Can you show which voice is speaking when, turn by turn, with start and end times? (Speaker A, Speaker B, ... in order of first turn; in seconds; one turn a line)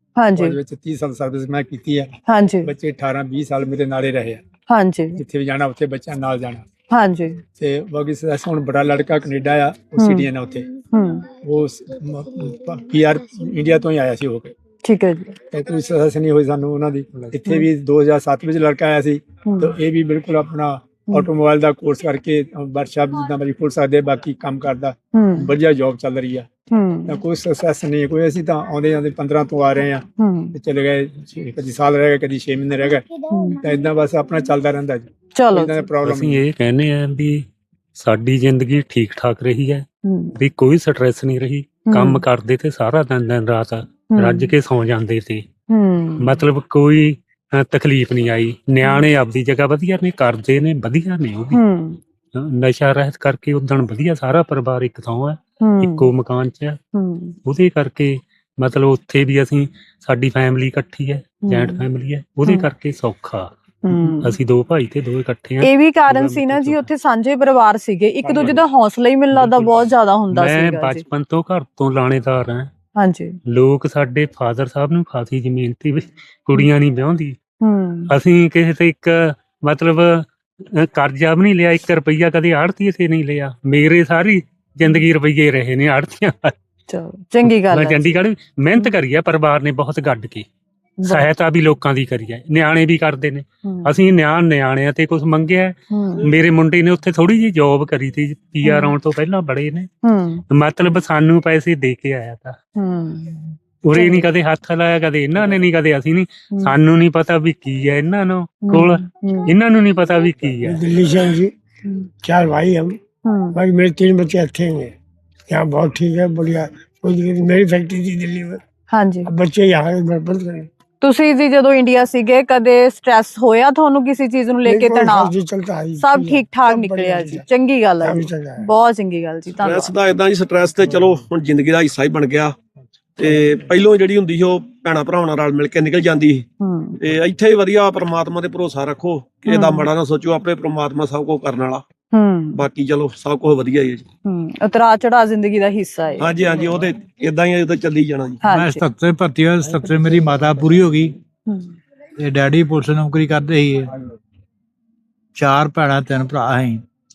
Speaker A: 0.2-0.6
Speaker B: 0.3-2.1
Speaker A: 2.3-2.7
Speaker B: 2.6-4.4
Speaker A: 4.7-5.2
Speaker B: 5.2-6.6
Speaker A: 6.9-7.4
Speaker B: 7.6-10.7
Speaker A: 10.0-10.3
Speaker A: 10.9-11.3
Speaker B: 11.4-14.5
Speaker A: 14.8-15.4
Speaker B: 15.5-26.5
Speaker A: 19.5-19.7
Speaker A: 25.1-25.5
Speaker A: 26.7-27.2
Speaker B: 27.1-33.0
Speaker A: 30.2-30.6
Speaker A: 33.3-33.6
Speaker B: 33.6-36.4
Speaker A: 35.3-35.9
Speaker C: 36.0-37.4
Speaker C: 38.0-45.4
Speaker A: 40.0-40.3
Speaker A: 41.9-42.2
Speaker A: 44.1-44.5
Speaker A: 45.7-46.4
Speaker C: 46.2-51.6
Speaker A: 51.5-52.0
Speaker C: 52.4-56.8
Speaker A: 55.6-56.1
Speaker A: 56.9-57.4
Speaker C: 57.4-66.9
Speaker A: 61.5-61.8
Speaker A: 63.9-64.3
Speaker A: 65.6-71.0
Speaker C: 68.3-68.6
Speaker C: 69.3-69.7
Speaker C: 70.3-72.7
Speaker A: 73.0-73.4
Speaker C: 73.5-77.3
Speaker A: 77.6-78.1
Speaker C: 78.1-86.5
Speaker A: 86.9-88.2
Speaker C: 87.5-90.5
Speaker A: 91.0-91.2
Speaker C: 91.0-99.9
Speaker A: 93.7-93.9
Speaker A: 95.9-96.3
Speaker A: 98.6-98.9
Speaker A: 100.0-100.4
Speaker C: 100.5-102.5
Speaker A: 102.8-104.2
Speaker C: 103.8-110.8
Speaker A: 108.6-109.5
Speaker D: 110.6-111.5
Speaker D: 112.2-113.0
Speaker A: 113.2-113.6
Speaker D: 113.5-114.9
Speaker D: 115.5-118.6
Speaker A: 118.9-119.3
Speaker D: 119.2-120.7
Speaker A: 121.0-125.3
Speaker D: 124.6-127.5
Speaker A: 126.0-129.9
Speaker D: 128.0-128.7
Speaker E: 129.6-132.5
Speaker E: 133.2-136.4
Speaker A: 136.6-137.0
Speaker E: 137.0-141.8
Speaker A: 139.5-139.9
Speaker A: 142.1-142.6
Speaker E: 142.5-144.0
Speaker A: 144.2-146.3
Speaker E: 146.2-148.4
Speaker A: 148.4-148.8
Speaker F: 148.5-151.1
Speaker A: 151.5-151.7
Speaker F: 152.2-153.9
Speaker F: 155.3-156.8